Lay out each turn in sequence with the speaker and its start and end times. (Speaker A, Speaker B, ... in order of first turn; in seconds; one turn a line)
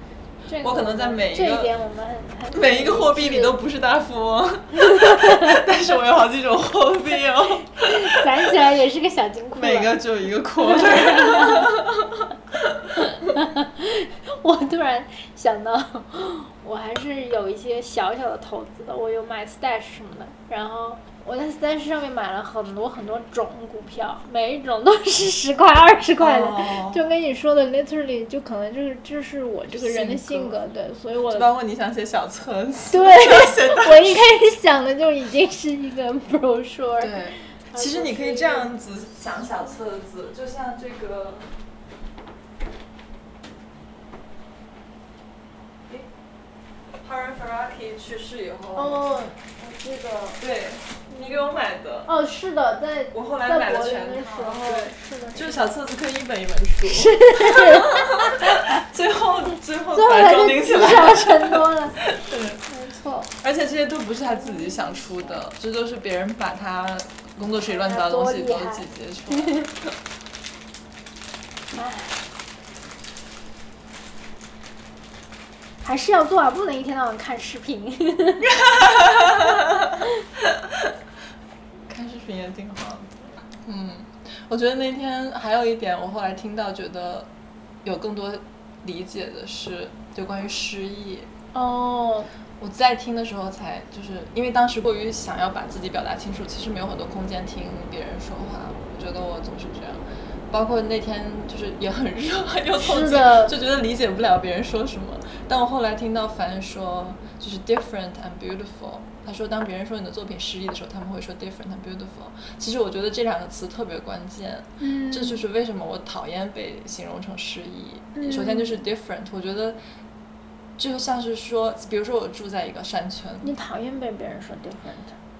Speaker A: 0.5-3.6
Speaker B: 0.6-1.7
Speaker B: 2.5-8.4
Speaker A: 4.8-5.6
Speaker A: 7.7-10.0
Speaker B: 9.6-13.0
Speaker A: 10.6-11.7
Speaker A: 12.9-31.5
Speaker B: 26.2-27.0
Speaker B: 29.7-30.6
Speaker B: 31.3-34.3
Speaker A: 32.9-38.7
Speaker B: 37.0-41.5
Speaker B: 47.0-49.0
Speaker A: 48.7-50.4
Speaker B: 50.4-52.1
Speaker A: 52.1-55.7
Speaker B: 53.1-62.6
Speaker A: 56.8-58.9
Speaker A: 59.9-62.0
Speaker A: 62.6-63.3
Speaker B: 63.4-69.9
Speaker A: 64.2-65.4
Speaker A: 67.6-69.7
Speaker A: 71.7-72.2
Speaker A: 75.8-78.5
Speaker B: 78.4-80.9
Speaker B: 81.9-87.3
Speaker B: 87.8-91.3
Speaker A: 91.5-92.3
Speaker B: 92.6-119.8
Speaker A: 102.8-103.5
Speaker A: 114.8-115.4
Speaker A: 118.1-118.8
Speaker B: 120.8-123.5
Speaker A: 123.4-125.2